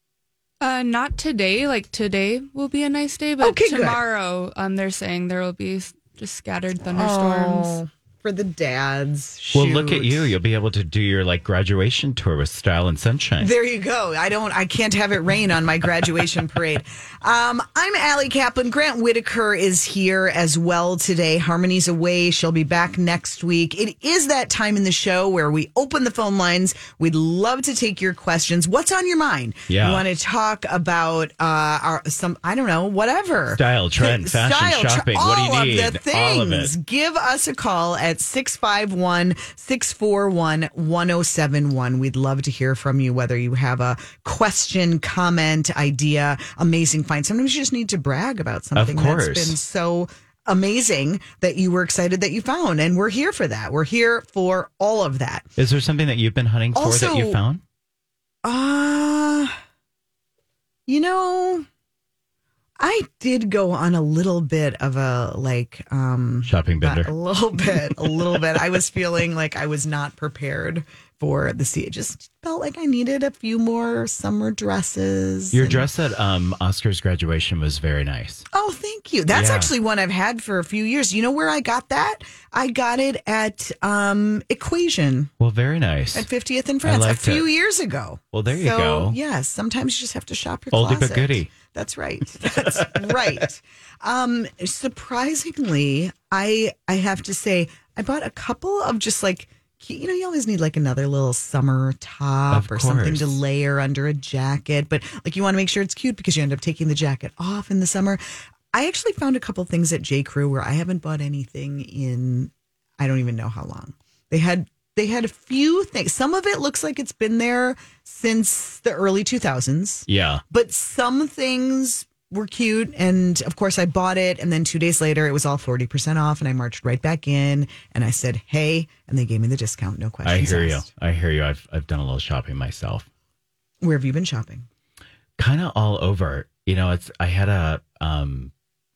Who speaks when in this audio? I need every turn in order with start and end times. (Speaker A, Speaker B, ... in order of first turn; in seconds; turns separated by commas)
Speaker A: 0.6-7.8, Speaker B: 3.4-4.0, Speaker B: 6.9-10.3, Speaker C: 9.5-13.5, Speaker B: 13.4-55.5, Speaker C: 29.7-30.0, Speaker C: 33.5-36.7, Speaker C: 48.7-49.6, Speaker C: 55.6-57.6, Speaker B: 56.7-57.4, Speaker B: 58.4-59.6, Speaker B: 60.9-61.7, Speaker B: 62.8-75.9, Speaker C: 66.5-67.1, Speaker C: 67.6-68.6, Speaker C: 75.5-78.4, Speaker B: 78.5-85.3, Speaker C: 79.3-79.7, Speaker C: 85.4-86.3, Speaker B: 86.1-108.2, Speaker C: 86.8-87.5, Speaker C: 88.3-89.2, Speaker C: 90.7-91.5, Speaker C: 92.5-93.4, Speaker C: 102.5-103.4, Speaker B: 108.7-130.9, Speaker C: 120.1-120.4, Speaker C: 130.2-133.1, Speaker B: 133.8-134.7, Speaker C: 135.4-138.5